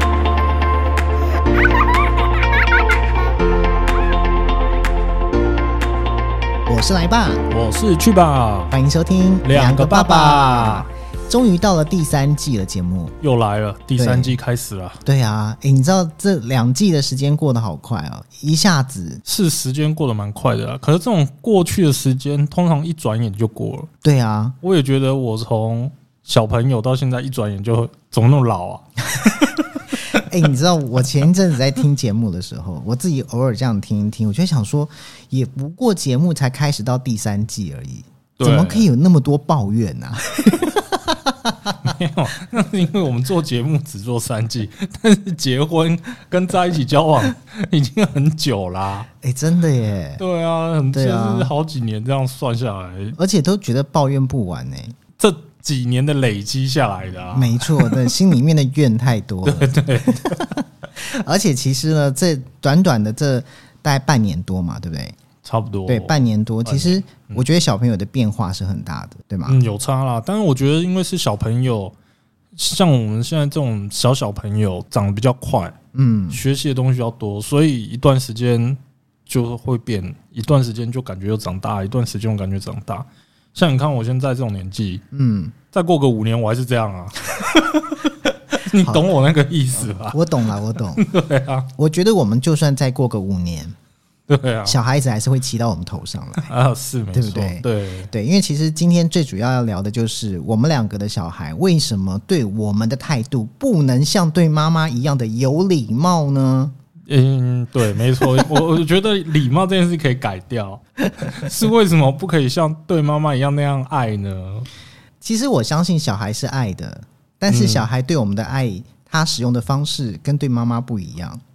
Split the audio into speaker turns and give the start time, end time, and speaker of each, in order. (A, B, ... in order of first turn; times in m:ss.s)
0:06.6-0:07.5 A
0:07.5-0:08.8 B
0:08.7-0:13.2 A
0:09.4-0:10.9 B
0:13.2-0:15.0 B
0:14.0-0:14.4 A
0:15.0-0:19.2 A
0:19.2-0:23.9 B
0:24.0-0:24.6 A
0:24.6-0:30.2 B
0:30.1-0:41.8 A
0:38.4-0:38.9 B
0:41.8-0:49.1 B
0:49.2-0:50.2 A
0:50.2-0:53.2 B
0:50.9-0:51.5 A
0:53.2-0:55.0 A
0:55.2-0:58.1 B
0:57.3-1:05.2 A
0:59.4-1:00.6 B
1:05.4-1:07.4 B
1:05.9-1:09.6 A
1:09.4-1:11.9 B
1:12.5-1:15.8 B
1:15.9-1:16.4 A
1:16.3-1:25.0 B
1:25.1-1:25.5 A
1:25.7-1:30.2 B
1:30.1-1:31.0 A
1:30.8-1:31.7 B
1:31.8-1:33.7 A
1:34.3-1:34.8 B
1:34.6-1:36.5 A
1:36.4-1:38.1 B
1:37.1-1:46.7 A
1:47.1-1:54.7 B
1:55.2-2:01.4 A
1:57.5-1:57.9 B